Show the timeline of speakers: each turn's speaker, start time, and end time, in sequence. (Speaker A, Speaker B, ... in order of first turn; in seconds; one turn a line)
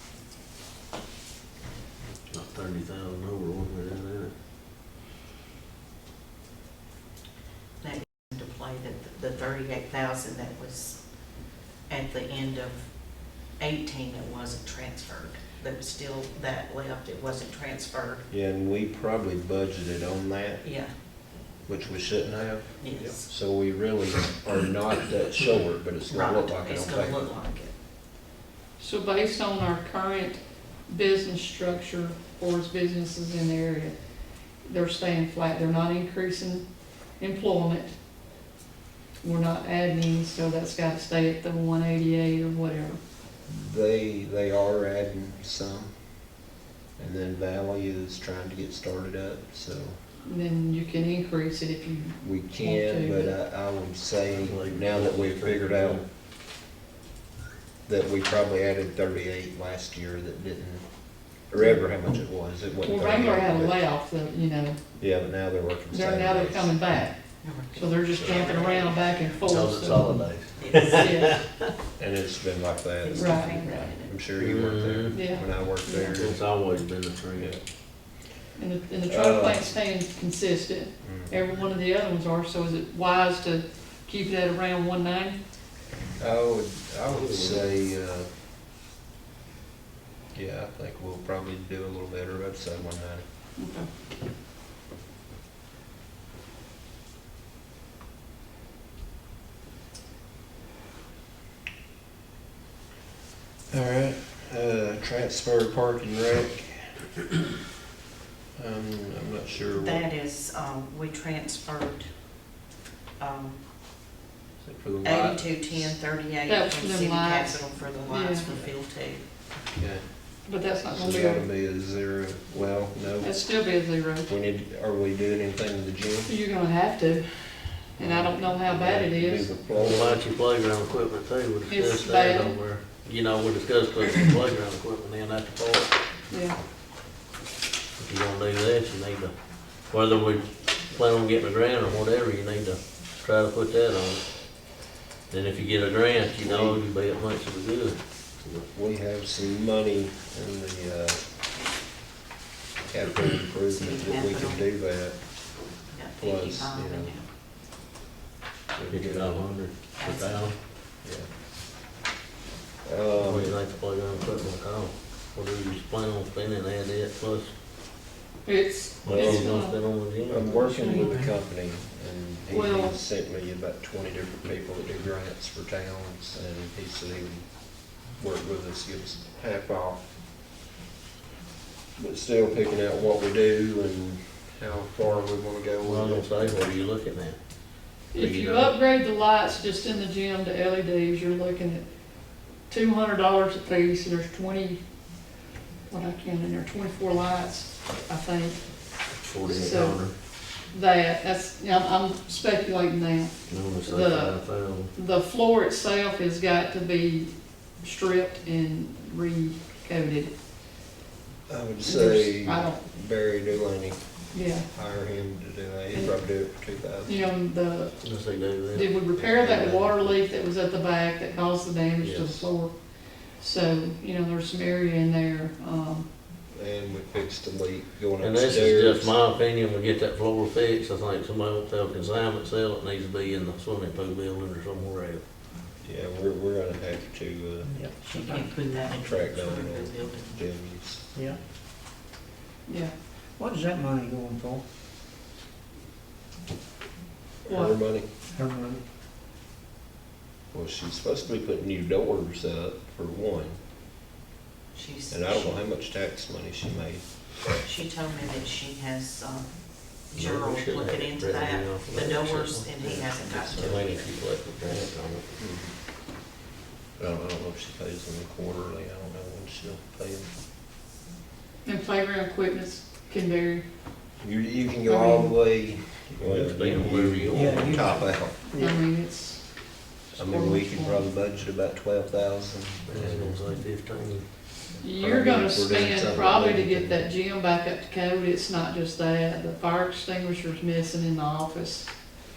Speaker A: 2.3-4.3
Speaker B: 7.8-11.0
Speaker B: 11.9-12.9
Speaker B: 13.6-18.2
Speaker C: 18.3-20.6
Speaker B: 20.6-20.9
Speaker C: 21.6-27.3
Speaker B: 22.8-23.3
Speaker B: 26.1-27.7
Speaker D: 28.8-33.9
Speaker D: 34.6-36.6
Speaker D: 37.2-38.0
Speaker D: 39.2-43.0
Speaker C: 43.5-46.0
Speaker C: 47.0-50.0
Speaker D: 50.2-53.3
Speaker C: 52.2-56.0
Speaker A: 54.3-56.0
Speaker C: 57.9-63.8
Speaker D: 62.8-64.8
Speaker C: 65.0-66.7
Speaker D: 65.9-70.0
Speaker B: 67.4-69.2
Speaker C: 68.1-68.6
Speaker A: 69.4-71.7
Speaker B: 70.5-71.2
Speaker D: 71.0-71.4
Speaker C: 72.0-76.4
Speaker B: 73.0-74.1
Speaker D: 73.1-73.6
Speaker A: 74.3-77.6
Speaker D: 75.1-76.1
Speaker D: 78.5-85.4
Speaker C: 79.0-79.6
Speaker C: 81.0-81.4
Speaker C: 86.2-88.3
Speaker A: 87.1-87.7
Speaker C: 90.3-93.2
Speaker D: 93.6-93.9
Speaker C: 103.7-107.1
Speaker C: 108.5-110.0
Speaker B: 109.8-112.1
Speaker B: 113.2-113.6
Speaker C: 114.6-115.9
Speaker B: 115.0-119.2
Speaker D: 116.5-118.5
Speaker C: 119.7-120.0
Speaker D: 120.5-121.4
Speaker C: 120.9-123.3
Speaker D: 123.2-124.3
Speaker C: 124.2-126.3
Speaker D: 126.2-129.5
Speaker C: 128.0-130.2
Speaker A: 129.7-135.9
Speaker D: 131.7-132.6
Speaker D: 136.3-136.6
Speaker A: 138.0-139.3
Speaker A: 139.9-144.2
Speaker A: 145.3-148.6
Speaker C: 146.4-146.8
Speaker C: 148.7-151.2
Speaker C: 152.8-155.3
Speaker B: 153.6-154.6
Speaker B: 155.9-157.2
Speaker C: 156.2-157.1
Speaker C: 158.7-159.4
Speaker A: 158.9-160.6
Speaker B: 160.0-160.5
Speaker C: 161.0-161.3
Speaker C: 162.8-163.6
Speaker A: 163.2-167.5
Speaker D: 168.4-169.8
Speaker A: 169.0-170.7
Speaker C: 169.1-169.5
Speaker C: 170.2-180.1
Speaker D: 170.8-171.1
Speaker D: 172.5-172.9
Speaker C: 181.9-186.7
Speaker A: 185.8-187.4
Speaker A: 188.1-188.7
Speaker D: 188.1-191.9
Speaker D: 192.6-194.8
Speaker D: 195.9-198.6
Speaker A: 199.1-200.1
Speaker D: 199.5-200.0
Speaker D: 200.6-203.3
Speaker A: 203.5-204.9
Speaker D: 203.8-204.4
Speaker D: 204.9-210.3
Speaker C: 211.5-214.0
Speaker D: 211.8-212.8
Speaker D: 214.3-214.7
Speaker C: 214.7-217.2
Speaker D: 217.0-218.0
Speaker A: 218.0-218.9
Speaker D: 218.7-226.1
Speaker C: 219.1-220.2
Speaker C: 222.0-222.5
Speaker C: 226.5-229.2
Speaker A: 228.2-235.2
Speaker C: 235.8-237.7
Speaker E: 237.7-239.0
Speaker B: 238.1-240.4
Speaker C: 239.0-241.0
Speaker D: 242.7-242.9
Speaker E: 243.3-244.6
Speaker C: 247.4-248.1
Speaker D: 247.5-247.8
Speaker E: 248.3-248.8
Speaker C: 250.5-253.6
Speaker B: 254.7-255.6
Speaker C: 255.1-257.0
Speaker B: 257.6-264.1
Speaker A: 260.1-265.2
Speaker C: 262.8-263.9
Speaker C: 264.6-265.7
Speaker C: 267.0-270.3
Speaker D: 271.6-273.6
Speaker C: 274.2-278.5
Speaker D: 274.9-275.3
Speaker A: 276.2-277.8
Speaker E: 277.3-278.9
Speaker D: 278.6-281.1
Speaker C: 280.1-283.4
Speaker A: 282.9-284.2
Speaker D: 284.8-291.9
Speaker C: 284.9-287.0